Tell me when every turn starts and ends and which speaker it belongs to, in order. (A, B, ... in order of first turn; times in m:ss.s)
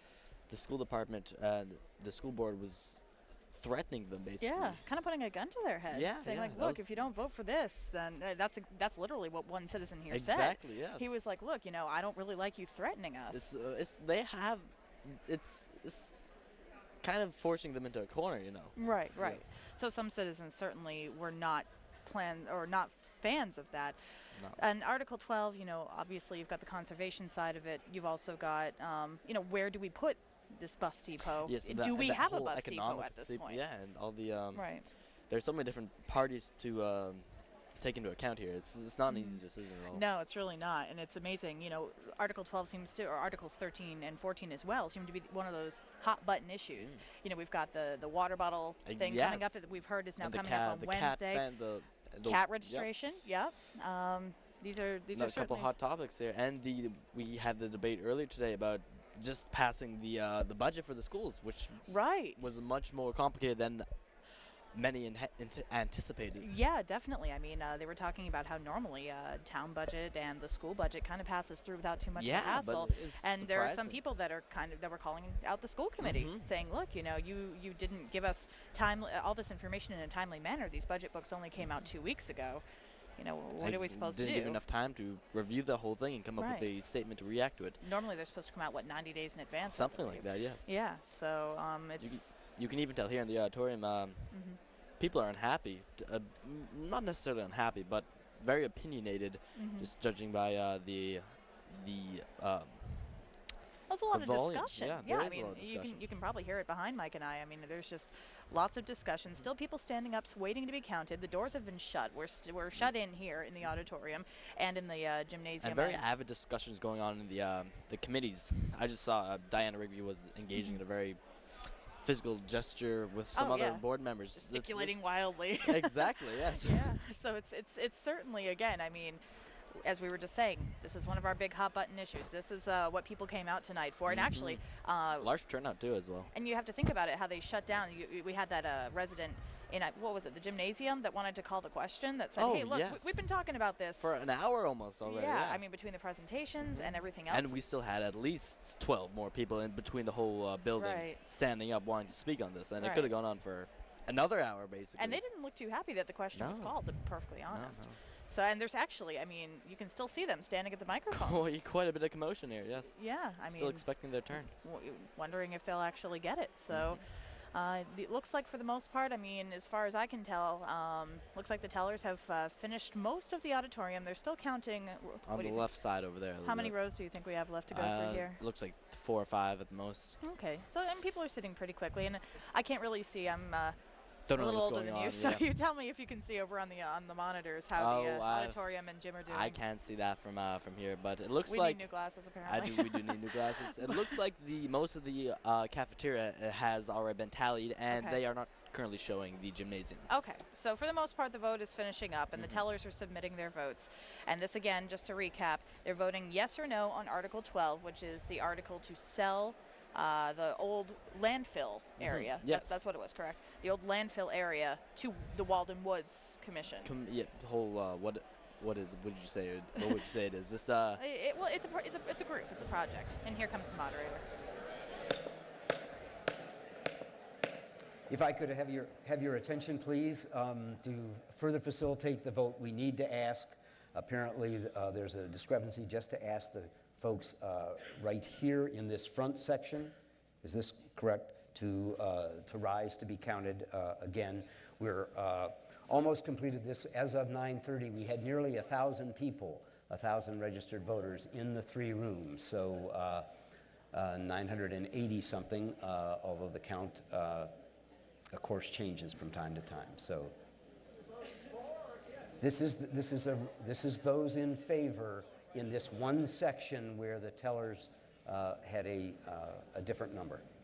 0:00.5-0:04.8 A
0:04.4-0:13.4 B
0:05.9-0:07.0 A
0:10.1-0:11.1 A
0:13.3-0:16.1 A
0:17.0-0:19.4 A
0:18.8-0:24.0 B
0:24.6-0:33.6 B
0:31.4-0:34.7 A
0:34.5-0:34.8 B
0:35.3-0:40.0 A
0:39.1-0:51.4 B
0:48.8-0:49.6 A
0:50.2-0:52.9 A
0:52.2-0:55.7 B
0:55.1-1:03.9 A
1:01.9-1:02.4 B
1:04.7-1:06.4 A
1:06.4-1:22.6 B
1:12.2-1:14.0 A
1:16.0-1:16.5 A
1:23.2-1:24.6 B
1:23.6-1:27.8 A
1:26.4-1:26.7 B
1:27.8-1:32.3 B
1:29.7-1:30.7 A
1:32.0-1:34.4 A
1:34.3-1:34.6 B
1:35.0-1:43.2 A
1:39.6-1:39.9 B
1:43.9-1:56.0 B
1:44.1-1:46.0 A
1:55.6-2:05.0 A
2:03.3-2:15.3 B
2:05.6-2:07.0 A
2:14.1-2:14.6 A
2:15.2-2:16.3 A
2:16.3-2:24.2 B
2:22.4-2:23.2 A
2:24.0-2:25.6 A
2:25.0-2:27.6 B
2:26.6-2:35.2 A
2:30.8-2:31.2 B
2:32.8-2:33.1 B
2:35.0-2:41.5 B
2:36.3-2:38.0 A
2:41.1-2:44.5 A
2:43.0-2:55.7 B
2:46.7-2:47.0 A
2:55.3-2:56.8 A
2:56.4-2:58.4 B
2:57.7-3:00.2 A
3:00.2-3:03.8 B
3:04.3-3:05.4 A
3:04.3-3:09.6 B
3:07.8-3:08.6 A
3:09.3-3:11.9 A
3:11.5-3:14.2 B
3:12.4-3:20.1 A
3:17.9-3:18.2 B
3:20.1-3:36.9 B
3:32.0-3:32.8 A
3:36.8-3:41.0 A
3:41.0-3:44.2 B
3:48.1-4:13.3 C
4:13.9-4:17.5 C
4:18.3-4:20.3 C
4:22.4-4:30.4 C